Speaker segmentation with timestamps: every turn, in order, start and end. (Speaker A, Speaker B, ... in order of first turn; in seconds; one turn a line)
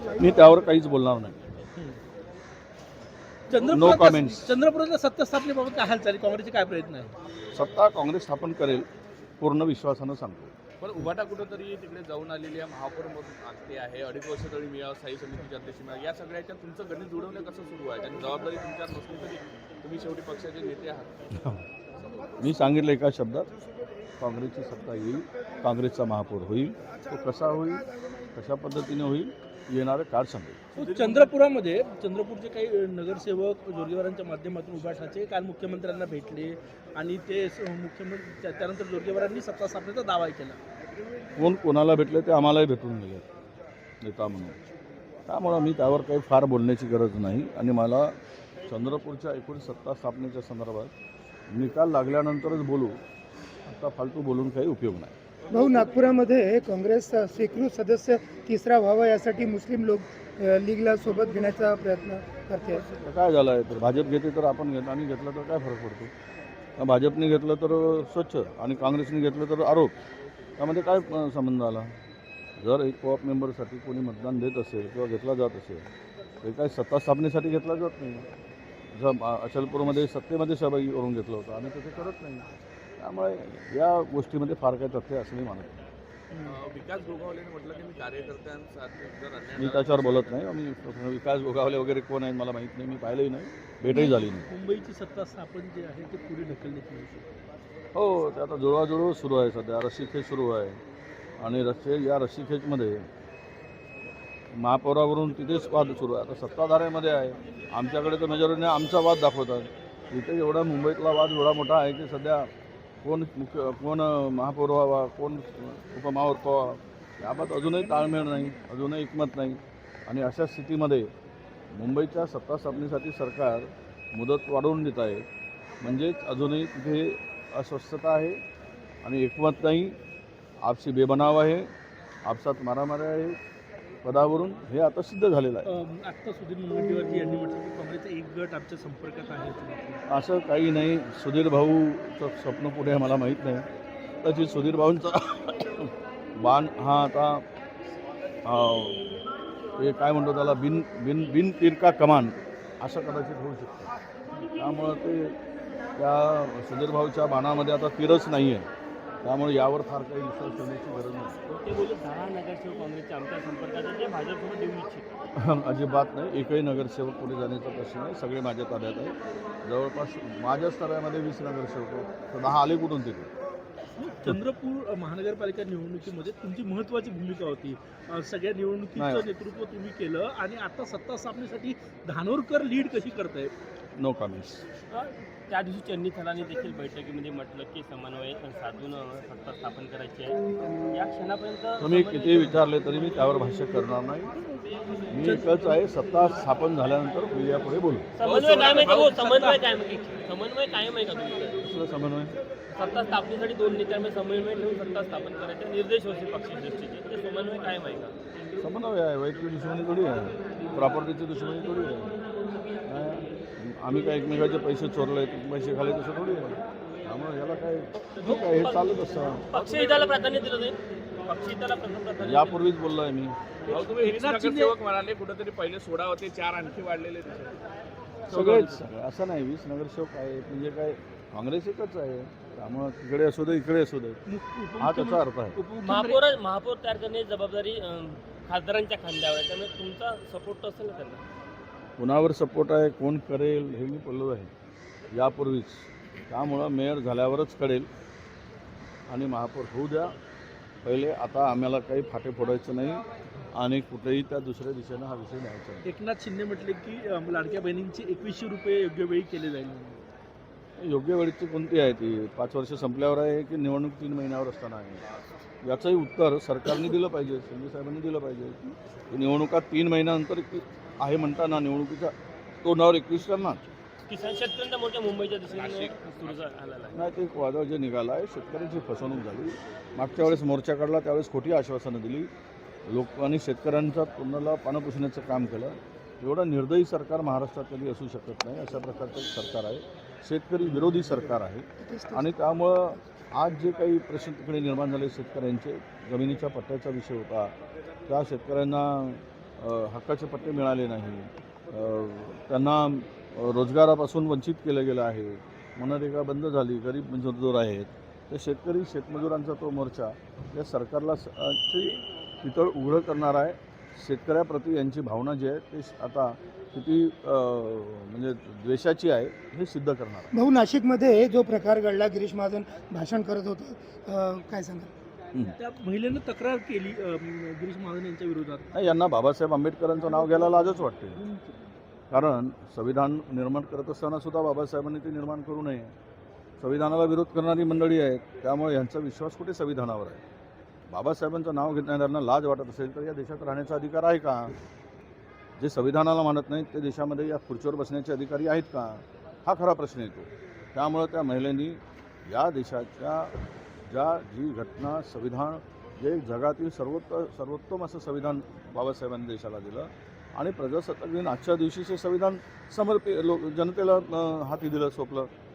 Speaker A: 0.2-1.6
Speaker B: 3.5-7.1
Speaker A: 3.7-4.5
Speaker A: 7.5-8.8
Speaker A: 9.4-10.5
Speaker C: 10.8-22.4
Speaker A: 22.4-23.5
Speaker A: 24.2-30.6
Speaker C: 30.8-31.4
Speaker B: 30.8-40.6
Speaker A: 41.4-43.2
Speaker A: 44.0-44.6
Speaker A: 45.3-50.9
Speaker A: 51.5-53.0
Speaker A: 53.6-55.1
Speaker D: 55.5-62.8
Speaker A: 63.0-66.1
Speaker A: 66.8-69.9
Speaker A: 70.6-71.9
Speaker A: 72.6-75.8
Speaker A: 76.4-78.3
Speaker A: 78.9-82.5
Speaker A: 83.0-85.8
Speaker C: 86.4-90.5
Speaker A: 89.6-94.5
Speaker B: 93.9-97.3
Speaker A: 97.9-100.8
Speaker A: 101.4-103.0
Speaker A: 104.5-112.5
Speaker A: 113.0-121.1
Speaker A: 121.7-125.2
Speaker A: 125.8-128.4
Speaker A: 129.0-130.0
Speaker A: 130.6-131.7
Speaker A: 132.2-133.4
Speaker A: 134.0-135.7
Speaker B: 135.7-140.0
Speaker A: 140.1-143.7
Speaker A: 144.2-147.4
Speaker A: 148.4-149.0
Speaker A: 149.8-153.9
Speaker A: 154.6-155.3
Speaker A: 156.0-158.7
Speaker A: 159.2-161.4
Speaker E: 161.5-165.1
Speaker A: 165.3-173.3
Speaker B: 174.0-183.5
Speaker A: 178.9-179.3
Speaker A: 184.0-184.6
Speaker E: 184.9-192.6
Speaker A: 191.8-194.3
Speaker A: 195.1-198.1
Speaker B: 195.2-195.7
Speaker E: 198.2-201.7
Speaker B: 198.2-199.6
Speaker A: 201.6-202.3
Speaker E: 202.7-208.1
Speaker A: 208.6-212.1
Speaker A: 212.8-219.6
Speaker E: 218.2-222.6
Speaker A: 222.2-223.3
Speaker C: 223.7-227.6
Speaker B: 223.7-224.7
Speaker A: 228.3-234.2
Speaker B: 234.3-236.2
Speaker A: 234.8-235.6
Speaker E: 235.8-241.2
Speaker A: 242.0-244.5
Speaker A: 245.1-247.9
Speaker A: 249.1-250.2
Speaker A: 250.8-255.9
Speaker B: 255.8-260.0
Speaker A: 260.8-265.1
Speaker A: 265.6-273.6
Speaker E: 274.1-277.0
Speaker C: 275.5-276.4
Speaker A: 276.9-282.3
Speaker A: 282.9-297.5
Speaker D: 291.8-292.3
Speaker A: 298.1-320.3
Speaker D: 320.3-324.9
Speaker B: 325.6-328.7
Speaker A: 328.7-331.2
Speaker B: 330.2-331.6
Speaker A: 332.1-335.9
Speaker A: 336.6-340.2
Speaker A: 340.9-344.5
Speaker A: 345.6-353.3
Speaker A: 353.9-365.3